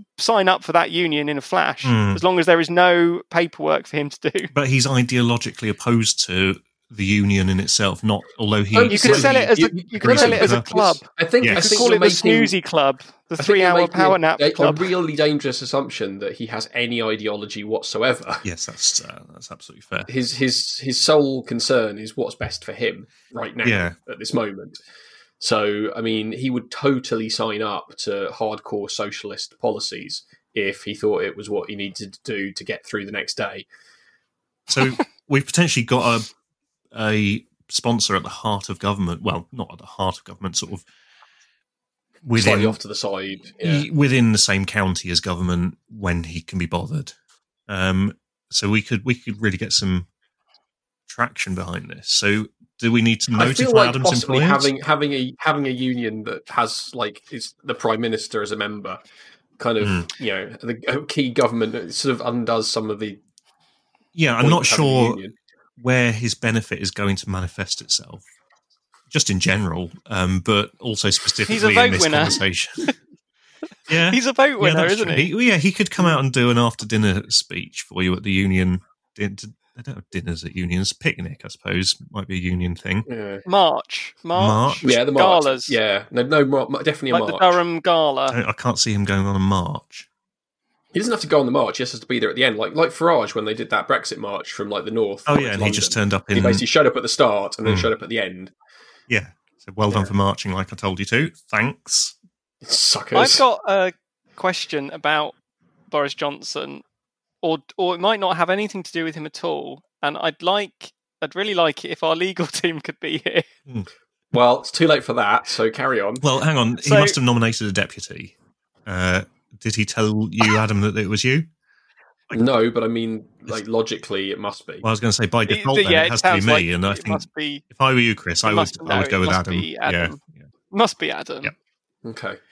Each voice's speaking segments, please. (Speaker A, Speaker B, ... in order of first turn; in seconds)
Speaker A: 0.2-4.5, 8.9-14.9, 71.5-72.4, 74.1-75.3, 83.5-85.8, 87.1-88.4, 103.2-105.3, 105.9-106.8, 107.4-113.5, 116.8-117.2, 125.5-127.6, 128.4-130.2, 130.7-131.5
Speaker B: 1.8-2.2, 4.5-9.5, 10.0-10.7, 11.4-11.8, 18.4-20.1, 23.6-24.0, 34.7-36.3, 36.9-40.9, 42.2-42.8, 43.6-47.1, 47.7-50.1, 51.1-54.7, 59.8-60.1, 64.2-65.2, 65.8-68.2, 69.1-72.9, 73.9-83.1, 84.3-84.8, 88.3-90.1, 95.3-96.6, 97.7-97.9, 99.1-102.2, 116.2-118.3, 118.9-121.5, 124.8-130.4
Speaker C: 8.7-12.5, 13.4-18.4, 20.1-24.8, 25.4-33.7, 42.4-43.9, 53.3-59.0, 59.6-63.2, 64.4-65.3, 83.1-83.5, 84.8-87.6, 90.9-98.5, 102.6-103.4, 114.3-116.3, 122.3-124.8, 132.1-132.4